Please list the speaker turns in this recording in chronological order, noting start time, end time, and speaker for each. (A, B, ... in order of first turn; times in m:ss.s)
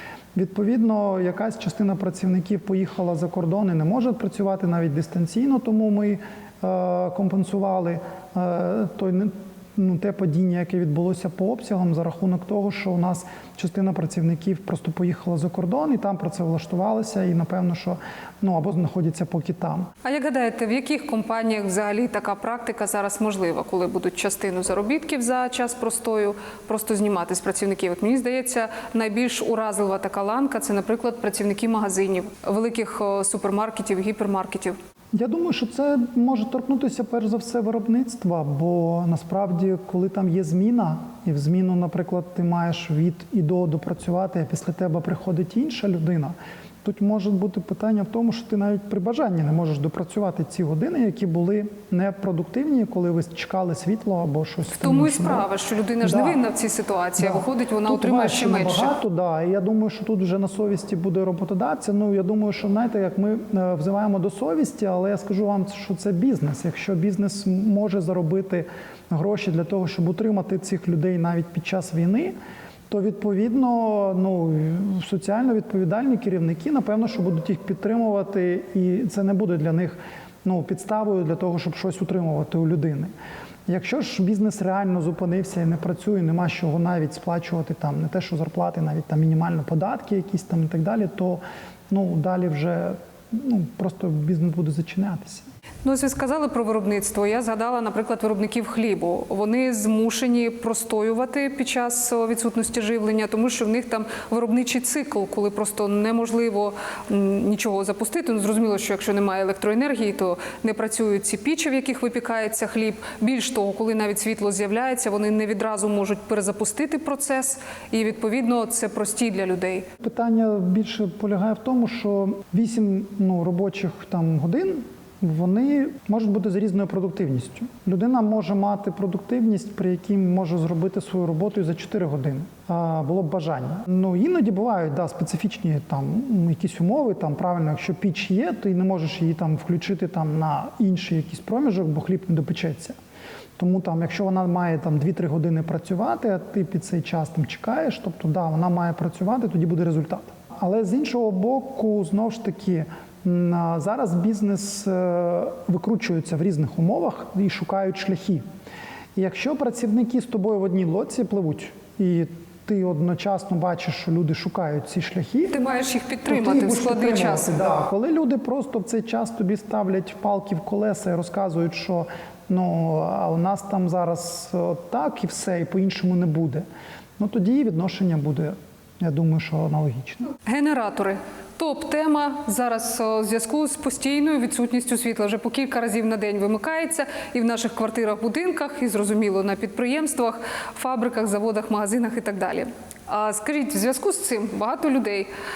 0:00.4-0:19.9 A
0:20.0-0:34.8 B
0:35.1-0:55.5 A
0:54.7-0:58.9 B
0:56.0-0:56.4 A
0:57.2-1:12.3 A
1:12.9-1:23.1 A
1:23.7-1:35.5 A
1:35.8-1:59.9 B
2:00.0-2:23.0 A
2:23.6-2:38.4 A
2:39.2-2:45.6 A
2:45.5-2:47.5 B
2:46.3-2:56.6 A
2:57.2-3:00.3 A
3:00.4-3:15.3 B